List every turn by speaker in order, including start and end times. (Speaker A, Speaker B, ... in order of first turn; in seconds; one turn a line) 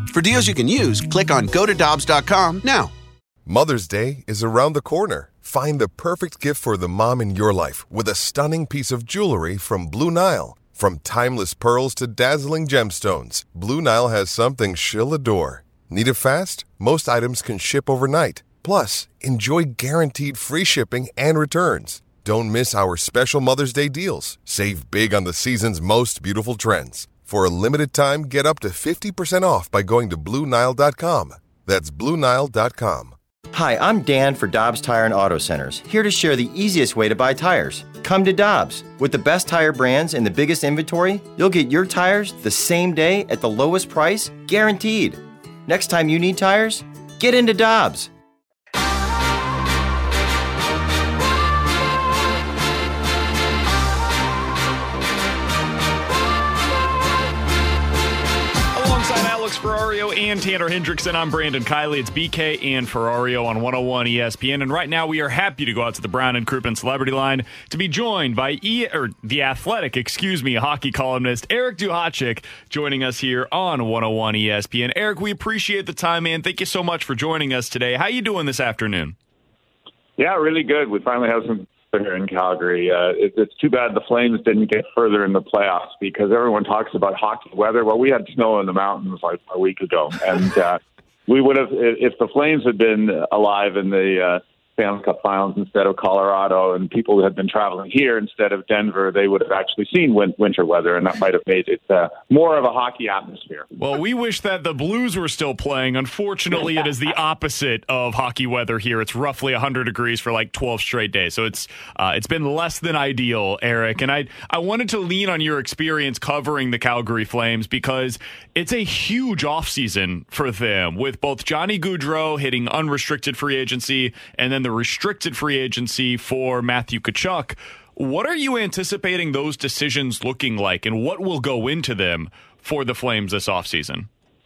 Speaker A: 0.1-2.9
Speaker B: 3.4-33.1
Speaker C: 33.5-48.1
Speaker D: 58.7-79.1
Speaker E: 80.2-103.7
Speaker D: 103.8-134.1